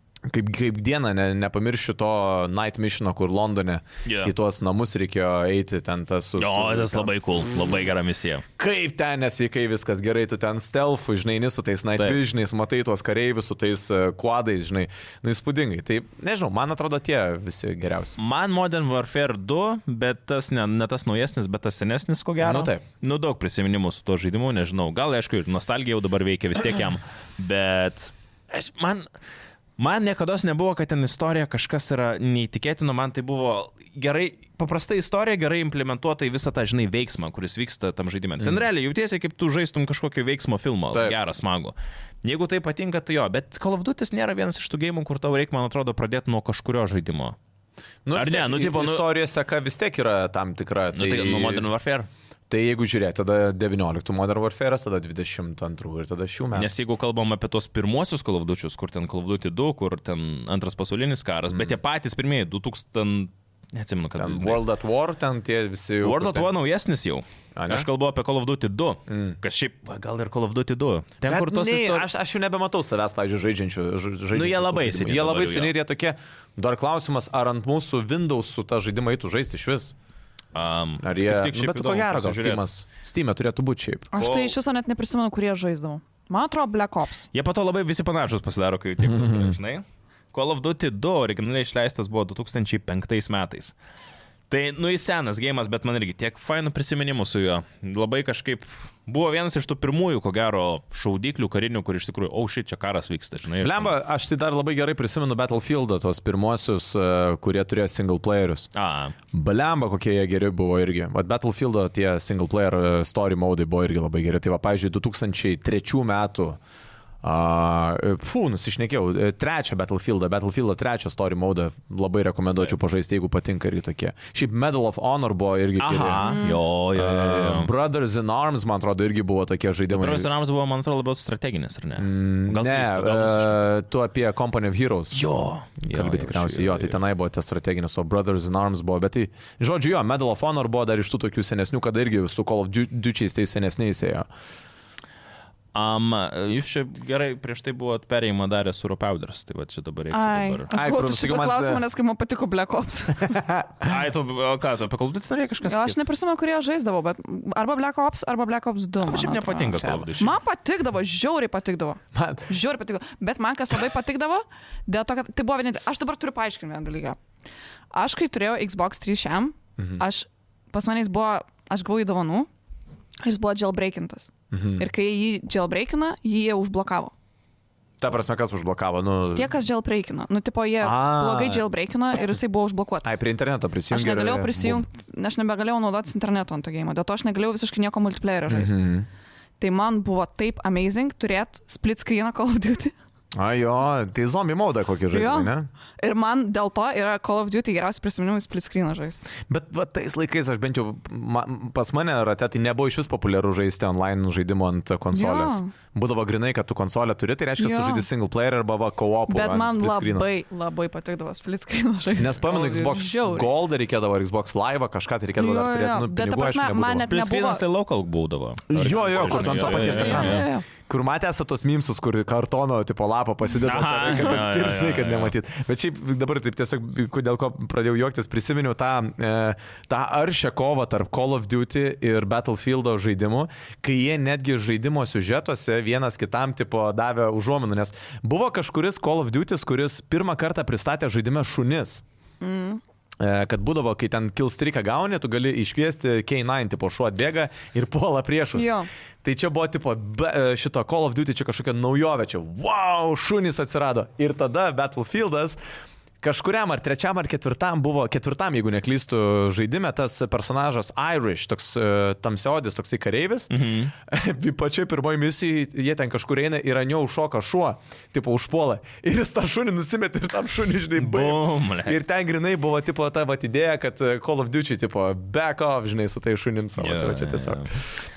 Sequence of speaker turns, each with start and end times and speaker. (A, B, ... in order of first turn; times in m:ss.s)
0:00.3-0:07.6 A
0:04.0-0:04.3 B
0:06.4-0:08.4 B
0:08.6-0:18.2 A
0:18.2-0:29.1 B
0:22.4-0:22.8 A
0:29.8-0:47.4 B
0:40.9-0:41.2 A
0:48.0-0:51.6 A
0:48.1-0:49.0 B
0:50.9-0:52.1 B
0:52.5-0:56.7 A
0:56.5-1:04.7 B
1:01.5-1:01.8 A
1:04.2-1:06.5 A
1:06.0-1:12.0 B
1:07.5-1:07.9 A
1:09.1-1:09.4 A
1:11.2-1:19.9 A
1:14.3-1:15.7 B
1:20.5-1:22.7 B
1:21.0-1:24.1 A
1:24.1-1:27.3 C
1:24.2-1:24.5 B
1:27.3-1:33.7 B
1:34.5-1:43.9 B
1:43.6-1:48.7 A
1:48.7-1:49.1 B
1:49.3-1:56.6 A
1:57.2-2:06.3 A
2:05.8-2:07.7 B
2:06.2-2:06.6 C
2:06.9-2:10.3 A
2:09.9-2:13.6 B
2:12.0-2:15.2 A
2:15.1-2:17.0 B
2:15.8-2:24.3 A
2:25.7-2:30.7 B
2:30.1-2:33.4 C
2:30.7-2:31.8 A
2:33.2-2:34.0 A
2:33.8-2:36.0 B
2:35.6-2:47.2 C
2:39.0-2:40.4 B
2:42.1-2:42.5 A
2:47.9-2:52.5 C
2:53.2-2:57.1 C
2:54.5-2:54.8 A
2:58.0-2:59.5 A
2:59.3-3:03.2 C
3:00.8-3:01.6 A
3:03.0-3:04.8 A
3:03.9-3:08.8 C
3:08.5-3:09.1 A
3:09.6-3:12.9 C
3:13.3-3:15.7 A
3:15.1-3:19.2 C
3:19.5-3:30.2 A
3:25.1-3:25.7 C
3:27.6-3:28.0 C
3:29.3-3:33.5 C
3:32.2-3:37.1 A
3:35.4-3:37.6 C
3:37.0-3:40.5 B
3:38.7-4:02.0 A
3:39.1-3:40.6 C
3:43.6-3:45.3 B
4:02.4-4:02.8 C
4:03.2-4:15.6 A
4:08.5-4:08.9 C
4:16.2-4:37.7 A
4:23.5-4:23.9 B
4:31.0-4:32.0 B
4:36.8-4:37.7 B